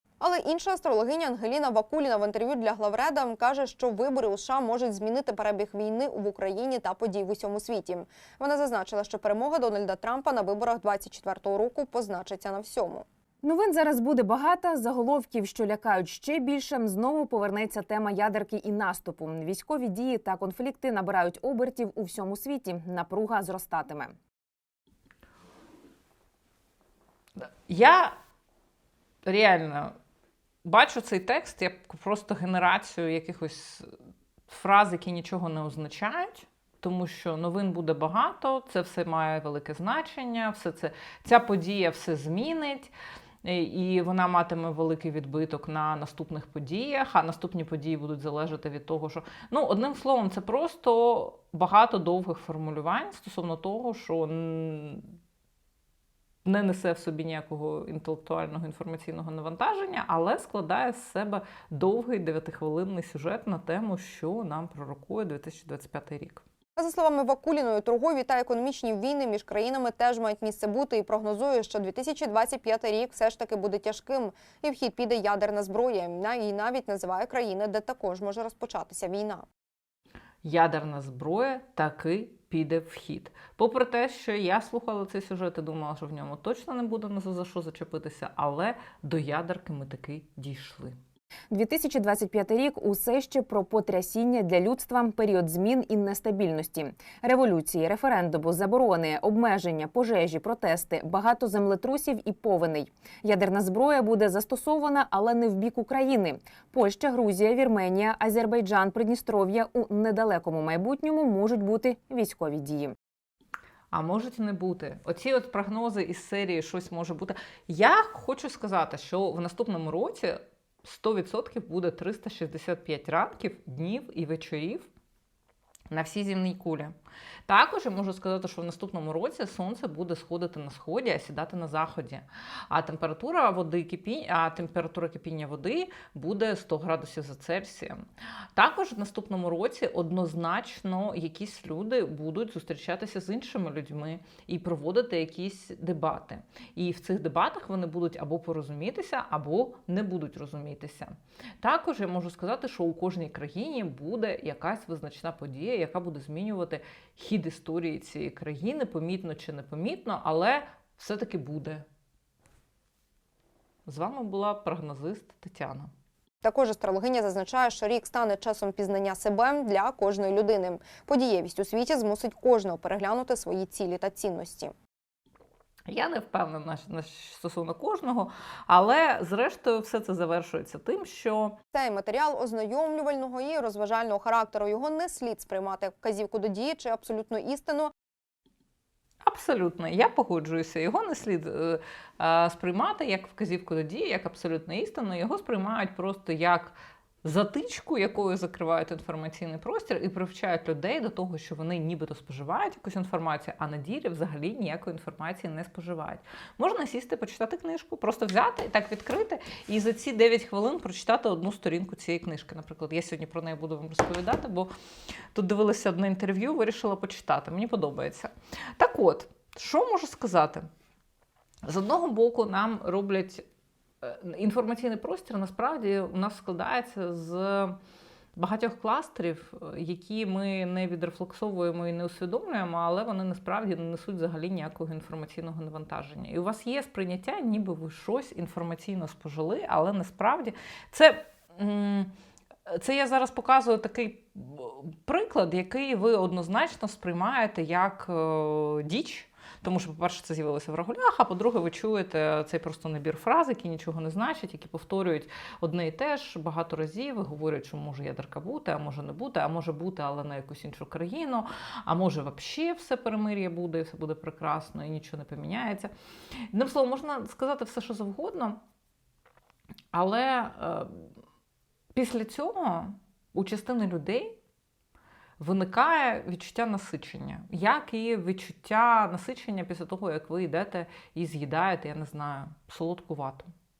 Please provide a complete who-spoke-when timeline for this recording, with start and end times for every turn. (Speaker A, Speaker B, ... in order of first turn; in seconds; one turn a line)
Speaker A: 0.2-13.0
Speaker B: 13.4-24.1
Speaker C: 27.4-28.1
Speaker C: 29.2-29.9
Speaker C: 30.6-33.9
Speaker C: 34.5-42.9
Speaker C: 43.4-55.1
Speaker C: 56.4-66.4
Speaker A: 66.8-79.5
Speaker C: 80.4-91.0
Speaker B: 91.5-113.0
Speaker C: 113.9-124.9
Speaker C: 125.9-126.9
Speaker C: 127.5-138.0
Speaker C: 138.6-161.8
Speaker C: 163.8-165.9
Speaker A: 166.4-174.7
Speaker C: 175.9-181.6
Speaker A: 181.7-187.9
Speaker C: 189.2-214.7
Speaker C: 215.3-220.7
Speaker C: 221.6-223.4
Speaker C: 224.0-227.8
Speaker C: 228.3-242.1
Speaker C: 242.7-265.9
Speaker C: 266.5-268.6
Speaker C: 269.9-271.1
Speaker C: 271.9-274.4
Speaker C: 275.4-283.5